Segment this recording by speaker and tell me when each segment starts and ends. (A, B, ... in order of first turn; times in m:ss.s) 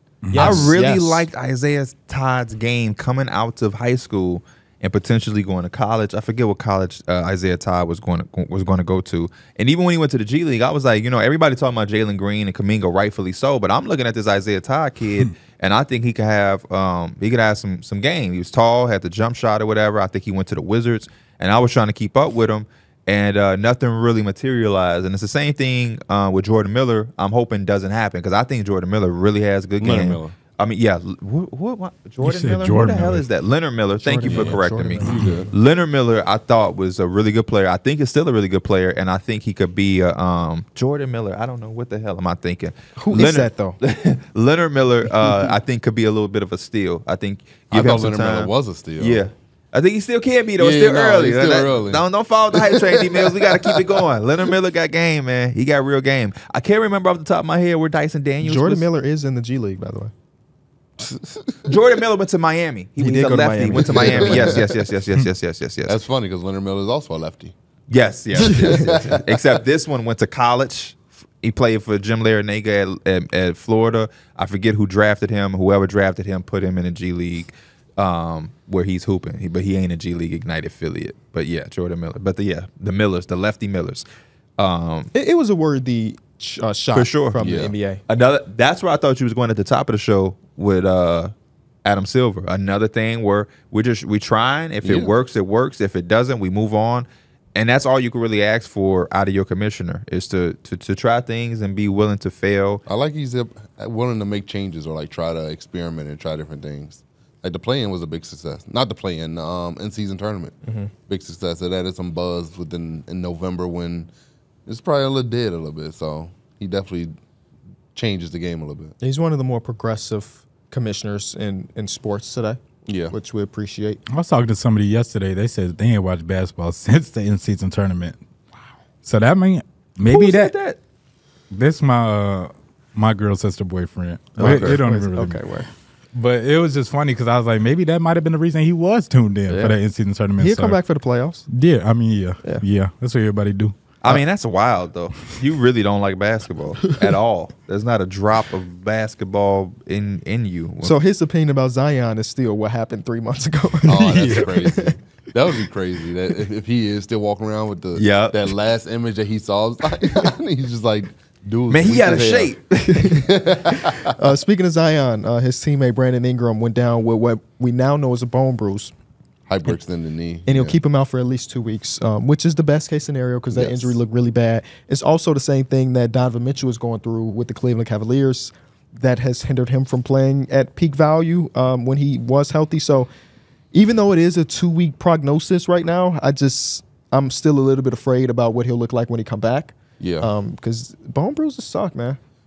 0:00.2-0:00.7 A
0:00.3-0:01.2 B
0:00.3-0:58.8 C
0:29.8-0:30.3 D
0:32.2-0:33.2 A
0:34.0-0:35.5 B
0:34.2-0:35.5 D
0:35.0-0:35.3 A
0:43.0-0:43.8 B
0:47.7-0:49.2 D
0:50.6-0:54.0 D
0:58.4-1:00.1 B
1:01.0-1:01.8 D
1:01.7-1:06.0 C
1:03.0-1:04.6 B
1:03.7-1:04.8 D
1:05.8-1:07.5 D
1:07.9-1:24.0 C
1:08.3-1:09.6 D
1:08.4-1:08.9 B
1:24.6-1:25.1 C
1:25.1-1:28.0 B
1:26.9-1:27.4 C
1:27.4-1:27.7 D
1:28.1-1:31.3 C
1:31.8-1:42.8 C
1:34.8-1:35.1 D
1:42.8-1:50.6 D
1:50.6-1:50.9 B
1:51.1-1:54.1 D
1:54.6-1:57.1 D
1:57.9-1:58.9 D
1:59.0-2:04.0 B
2:02.8-2:03.1 D
2:04.1-2:08.2 A
2:09.0-2:10.5 A
2:10.0-2:10.8 C
2:11.5-2:15.4 A
2:14.4-2:14.8 C
2:14.4-2:15.7 B
2:16.1-2:20.8 A
2:20.4-2:21.5 B
2:21.5-2:23.8 A
2:24.0-2:31.0 C
2:30.8-2:35.0 B
2:33.9-2:44.2 D
2:34.1-2:34.5 A
2:37.9-2:38.5 C
2:41.7-2:43.2 C
2:42.8-2:43.2 B
2:43.8-2:48.9 B
2:49.5-2:50.8 D
2:50.4-3:03.1 B
2:53.5-2:54.0 D
3:03.7-3:12.2 B
3:10.0-3:10.3 D